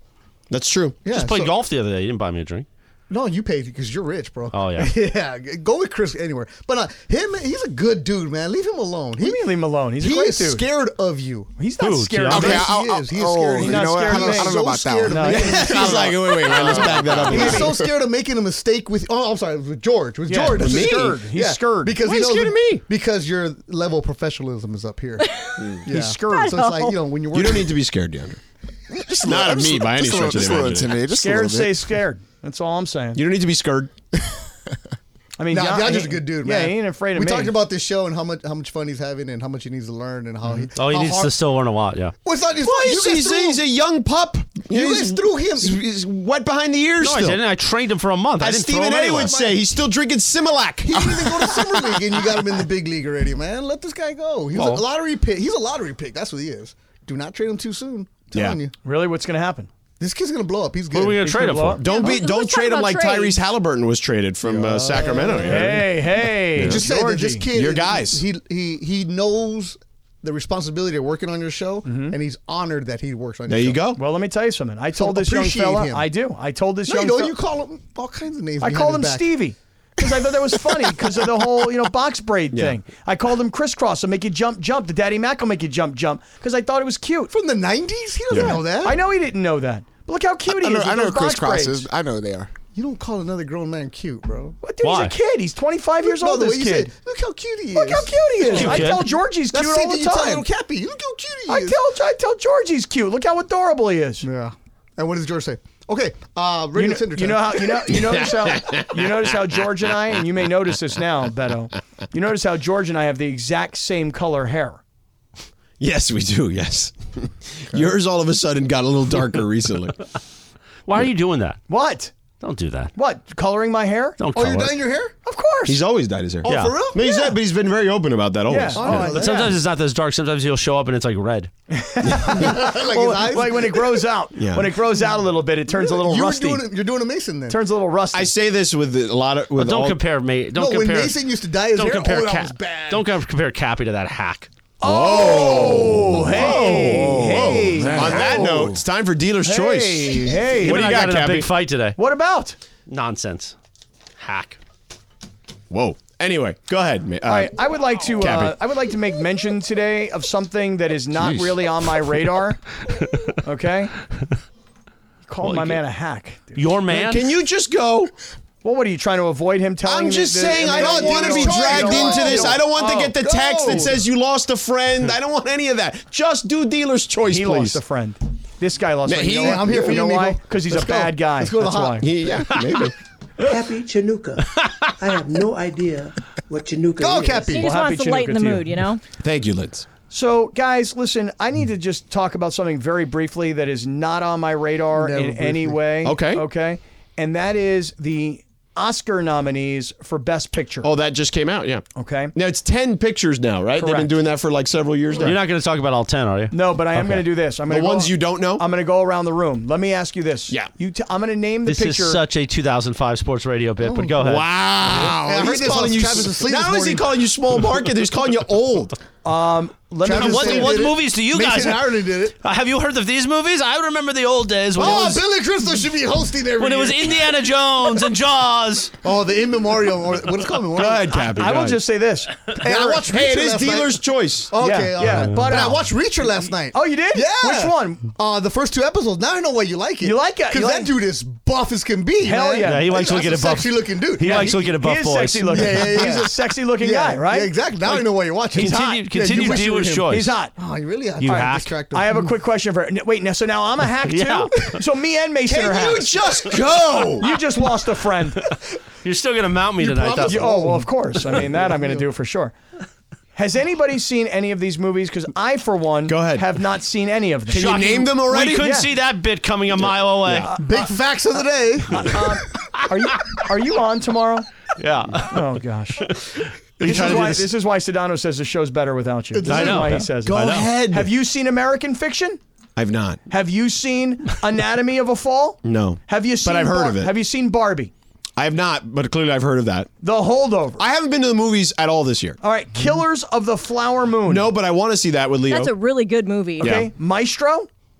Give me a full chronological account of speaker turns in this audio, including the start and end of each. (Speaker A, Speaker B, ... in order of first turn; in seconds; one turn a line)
Speaker A: 0.5-1.0
Speaker B: 1.0-1.5
Speaker C: 1.1-2.6
Speaker B: 3.1-11.5
Speaker C: 4.5-4.9
Speaker D: 9.2-10.6
Speaker D: 11.6-12.7
Speaker C: 11.8-12.6
Speaker E: 12.3-17.6
Speaker B: 12.3-27.8
Speaker D: 13.6-14.6
Speaker D: 15.1-16.0
Speaker A: 15.3-17.8
Speaker D: 17.2-17.7
Speaker D: 20.3-22.0
Speaker A: 20.4-21.2
Speaker A: 22.0-22.8
Speaker D: 25.9-26.7
Speaker F: 26.3-27.0
Speaker A: 27.3-28.4
Speaker E: 28.9-31.9
Speaker A: 29.2-31.0
Speaker D: 31.1-33.2
Speaker A: 33.1-33.9
Speaker D: 35.4-37.5
Speaker B: 35.5-41.3
Speaker C: 40.7-42.1
Speaker B: 42.2-43.6
Speaker A: 42.6-47.4
Speaker B: 44.6-45.8
Speaker C: 47.0-49.3
Speaker A: 48.4-51.0
Speaker B: 49.1-49.6
Speaker B: 50.9-58.7
Speaker A: 54.5-54.8
Speaker A: 58.3-58.6
Speaker D: 58.8-59.7
Speaker B: 60.0-61.3
Speaker C: 60.9-61.8
Speaker D: 61.2-61.8
Speaker A: 61.8-66.0
Speaker F: 61.8-63.4
Speaker B: 64.4-65.8
Speaker D: 65.3-67.5
Speaker A: 66.5-66.9
Speaker B: 66.6-73.8
Speaker A: 67.5-68.2
Speaker D: 71.8-72.2
Speaker A: 73.5-74.0
Speaker D: 74.0-77.3
Speaker B: 75.0-76.1
Speaker B: 76.9-79.3
Speaker D: 78.6-87.3
Speaker A: 82.5-82.8
Speaker B: 87.3-89.0
Speaker A: 88.3-88.6
Speaker D: 88.3-91.9
Speaker E: 90.5-92.5
Speaker B: 92.7-94.5
Speaker D: 94.6-96.9
Speaker C: 94.8-95.1
Speaker B: 96.0-101.8
Speaker D: 97.7-100.5
Speaker C: 98.5-99.1
Speaker D: 101.5-104.2
Speaker B: 104.2-108.0
Speaker D: 106.8-114.8
Speaker A: 108.0-109.3
Speaker A: 115.8-120.0
Speaker C: 120.8-121.6
Speaker D: 121.7-122.1
Speaker C: 122.4-122.9
Speaker D: 123.0-124.2
Speaker C: 124.2-124.8
Speaker B: 124.3-125.1
Speaker D: 125.2-125.8
Speaker A: 125.7-129.2
Speaker B: 126.4-127.3
Speaker C: 126.5-126.8
Speaker D: 128.5-129.6
Speaker B: 128.7-129.6
Speaker C: 129.1-131.5
Speaker D: 131.7-136.6
Speaker B: 132.2-134.1
Speaker A: 134.3-134.7
Speaker B: 135.7-137.6
Speaker D: 137.5-138.3
Speaker A: 138.1-140.0
Speaker C: 139.6-141.2
Speaker B: 140.5-143.1
Speaker C: 141.7-144.5
Speaker D: 144.8-148.8
Speaker A: 144.8-151.5
Speaker B: 147.7-148.5
Speaker D: 149.4-151.3
Speaker C: 150.6-152.0
Speaker D: 151.9-152.6
Speaker C: 152.9-153.5
Speaker C: 154.2-154.6
Speaker A: 155.7-157.6
Speaker D: 157.2-162.6
Speaker A: 158.1-158.6
Speaker D: 163.4-163.9
Speaker D: 165.3-166.6
Speaker C: 165.4-165.8
Speaker C: 166.5-167.3
Speaker A: 166.9-168.1
Speaker D: 168.6-173.1
Speaker A: 169.8-177.8
Speaker B: 170.4-174.0
Speaker D: 177.3-182.1
Speaker A: 179.1-180.0
Speaker B: 179.3-182.6
Speaker A: 182.0-182.9
Speaker G: 183.4-187.5
Speaker C: 184.6-184.9
Speaker B: 187.0-187.7
Speaker F: 187.5-189.0
Speaker D: 187.6-188.8
Speaker A: 189.2-189.8
Speaker D: 190.1-200.9
Speaker B: 194.9-195.9
Speaker A: 196.0-196.4
Speaker A: 200.8-201.8
Speaker D: 201.9-202.3
Speaker A: 202.3-205.4
Speaker D: 203.8-204.2
Speaker C: 205.2-207.2
Speaker D: 206.5-212.2
Speaker A: 207.7-208.6
Speaker C: 211.7-214.5
Speaker B: 213.8-214.2
Speaker A: 214.2-218.9
Speaker B: 214.8-217.1
Speaker D: 219.2-220.8
Speaker B: 220.0-222.3
Speaker C: 220.1-225.2
Speaker B: 224.7-227.3
Speaker C: 226.6-228.9
Speaker B: 229.0-231.2
Speaker A: 230.7-231.8
Speaker D: 231.1-233.0
Speaker B: 232.6-244.8
Speaker A: 232.7-234.5
Speaker D: 234.6-235.9
Speaker A: 235.1-235.3
Speaker D: 236.7-238.1
Speaker D: 240.0-240.9
Speaker D: 242.2-242.9
Speaker C: 242.6-246.2
Speaker D: 244.2-247.5
Speaker B: 245.5-252.3
Speaker C: 247.8-250.3
Speaker D: 248.5-250.5
Speaker C: 251.2-251.7
Speaker D: 251.2-256.1
Speaker C: 254.0-254.8
Speaker B: 255.5-257.3
Speaker A: 255.5-257.2
Speaker D: 257.2-258.5
Speaker C: 259.0-260.6
Speaker B: 259.8-262.0
Speaker D: 260.2-262.5
Speaker D: 263.4-268.9
Speaker A: 266.1-266.4
Speaker C: 267.5-270.5
Speaker A: 267.5-268.7
Speaker A: 269.9-270.4
Speaker D: 270.4-270.9
Speaker B: 270.6-272.2
Speaker D: 271.9-274.5
Speaker C: 274.8-277.5
Speaker D: 275.2-276.2
Speaker D: 276.8-282.4
Speaker B: 276.8-277.3
Speaker A: 277.0-277.2
Speaker B: 279.3-280.0
Speaker C: 279.4-280.6
Speaker A: 280.1-281.1
Speaker A: 282.8-283.2
Speaker D: 283.3-287.9
Speaker A: 285.6-287.1
Speaker A: 288.4-289.9
Speaker D: 290.0-290.8
Speaker A: 290.8-292.4
Speaker D: 292.4-294.5
Speaker A: 294.2-295.7
Speaker F: 295.5-296.7
Speaker A: 296.6-296.9
Speaker D: 296.6-297.7